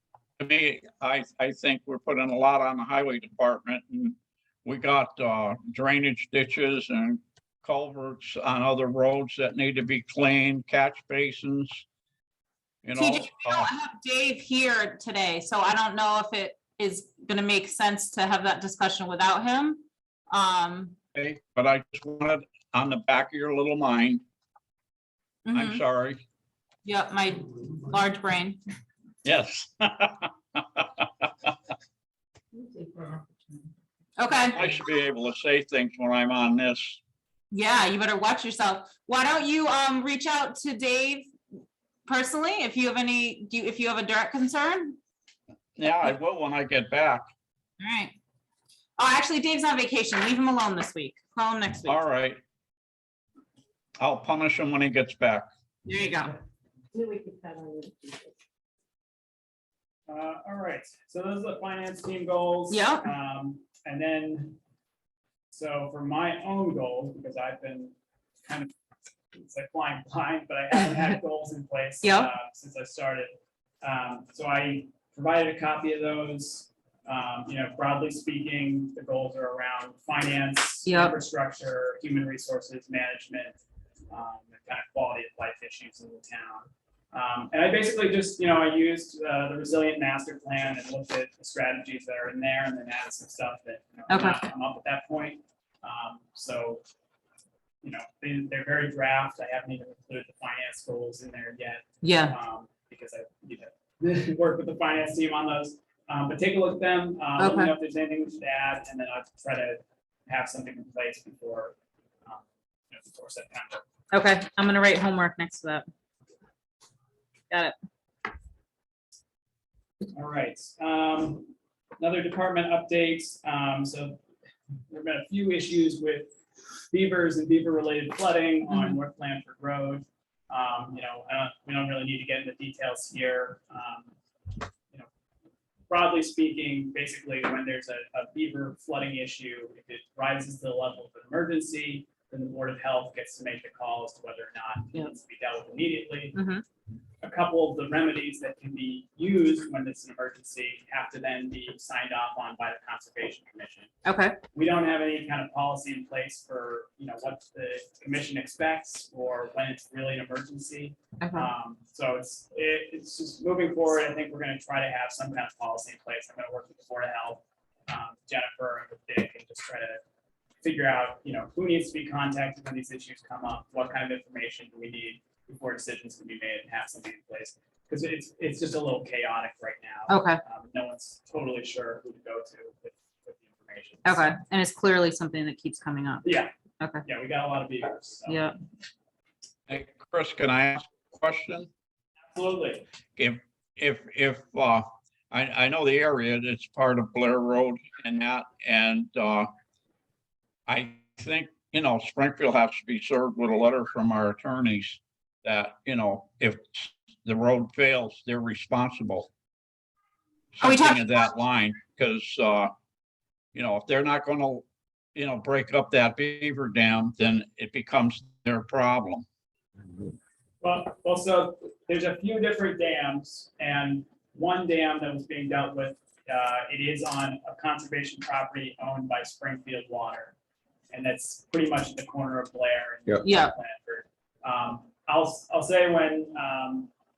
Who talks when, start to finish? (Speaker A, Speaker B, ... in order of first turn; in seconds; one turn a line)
Speaker A: 0.4-11.8
Speaker A: 12.8-13.7
Speaker B: 12.9-20.9
Speaker A: 21.1-24.2
Speaker B: 25.4-25.8
Speaker A: 25.5-26.2
Speaker B: 26.8-28.6
Speaker A: 29.2-30.8
Speaker C: 32.5-33.6
Speaker B: 34.2-34.6
Speaker A: 34.5-37.0
Speaker B: 37.5-41.3
Speaker B: 42.0-45.0
Speaker A: 45.8-47.2
Speaker B: 47.8-48.1
Speaker B: 49.0-52.0
Speaker A: 51.9-52.4
Speaker A: 54.0-55.5
Speaker B: 55.8-56.3
Speaker C: 56.9-58.3
Speaker D: 60.1-64.6
Speaker B: 62.7-63.1
Speaker D: 65.5-67.9
Speaker D: 68.4-68.7
Speaker D: 69.3-83.6
Speaker B: 72.0-72.3
Speaker B: 80.8-81.2
Speaker D: 84.1-96.8
Speaker B: 94.1-94.4
Speaker D: 97.8-111.7
Speaker B: 102.0-102.3
Speaker B: 107.4-107.7
Speaker D: 112.2-113.9
Speaker B: 114.1-115.8
Speaker B: 117.5-117.8
Speaker D: 120.1-124.2
Speaker D: 124.9-126.3
Speaker D: 126.9-134.1
Speaker D: 135.9-146.4
Speaker B: 146.3-146.6
Speaker D: 147.2-153.9
Speaker B: 154.0-154.4
Speaker D: 154.5-170.0
Speaker B: 161.2-161.5
Speaker D: 170.6-184.3
Speaker B: 180.1-180.4
Speaker B: 184.0-186.3
Speaker D: 186.2-186.5
Speaker B: 186.8-187.1
Speaker D: 187.0-188.4
Speaker B: 188.3-188.6
Speaker A: 189.7-191.7
Speaker D: 192.2-192.8
Speaker A: 193.2-199.5
Speaker A: 200.7-209.3
Speaker A: 210.6-212.7
Speaker B: 210.6-211.3
Speaker A: 213.5-219.2
Speaker D: 220.6-230.3
Speaker D: 230.9-236.9
Speaker B: 233.2-233.5